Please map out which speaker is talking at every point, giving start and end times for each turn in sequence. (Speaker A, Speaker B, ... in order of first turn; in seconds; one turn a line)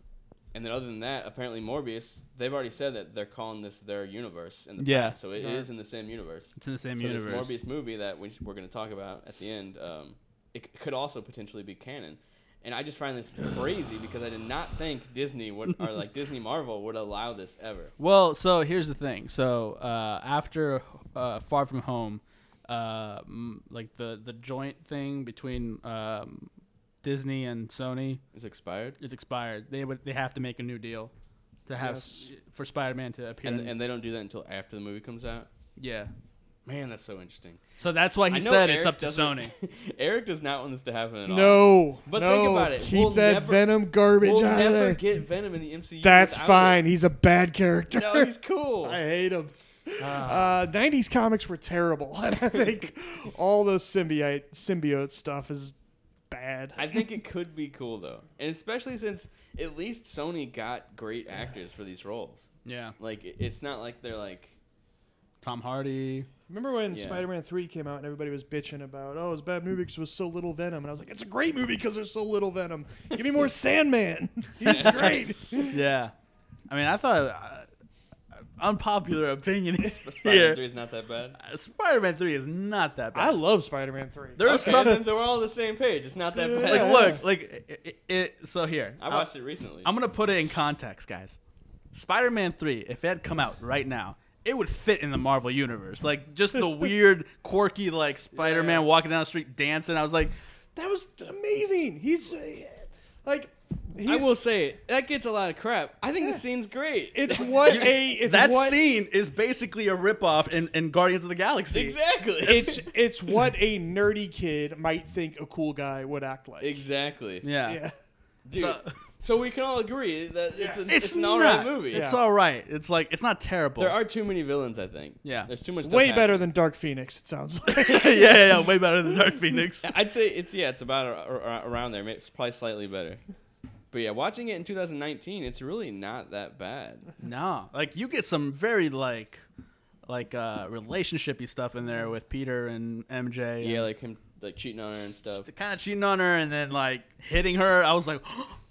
Speaker A: 0.5-17.9
Speaker B: 4.8-5.2
Speaker C: 5.3-5.7
Speaker B: 6.6-7.6
Speaker B: 18.0-26.5
Speaker B: 27.0-28.2
Speaker A: 28.3-29.0
Speaker B: 29.0-31.1
Speaker B: 31.7-33.7
Speaker C: 31.8-32.2
Speaker A: 33.4-35.5
Speaker B: 35.8-36.1
Speaker A: 36.6-37.6
Speaker B: 37.8-39.5
Speaker A: 38.3-46.8
Speaker C: 41.3-45.0
Speaker C: 46.0-55.7
Speaker A: 47.9-49.0
Speaker A: 50.0-50.5
Speaker C: 56.3-57.0
Speaker A: 56.8-64.5
Speaker B: 62.6-62.9
Speaker B: 65.4-66.3
Speaker C: 66.5-75.8
Speaker A: 66.9-67.2
Speaker A: 74.6-75.1
Speaker B: 74.7-75.1
Speaker B: 75.7-76.1
Speaker B: 76.7-77.7
Speaker B: 78.3-80.6
Speaker A: 79.8-81.4
Speaker B: 81.4-83.4
Speaker C: 83.1-85.0
Speaker B: 84.4-85.0
Speaker A: 84.4-87.2
Speaker C: 86.4-87.2
Speaker B: 86.6-89.3
Speaker A: 89.0-89.9
Speaker B: 89.8-91.4
Speaker B: 91.9-100.3
Speaker C: 98.5-98.8
Speaker C: 100.8-104.3
Speaker A: 104.0-107.9
Speaker C: 107.1-108.8
Speaker B: 107.7-112.0
Speaker A: 111.7-112.8
Speaker C: 112.4-116.8
Speaker A: 116.6-117.5
Speaker B: 117.4-117.8
Speaker C: 117.6-117.9
Speaker A: 118.5-122.1
Speaker B: 118.5-118.9
Speaker C: 120.5-120.9
Speaker B: 120.9-124.0
Speaker C: 121.9-122.2
Speaker A: 123.8-126.5
Speaker B: 125.2-125.5
Speaker C: 125.8-128.6
Speaker B: 127.7-129.9
Speaker A: 129.8-133.2
Speaker A: 133.9-137.1
Speaker B: 137.2-139.4
Speaker B: 140.1-143.8
Speaker A: 143.6-145.5
Speaker B: 145.4-148.6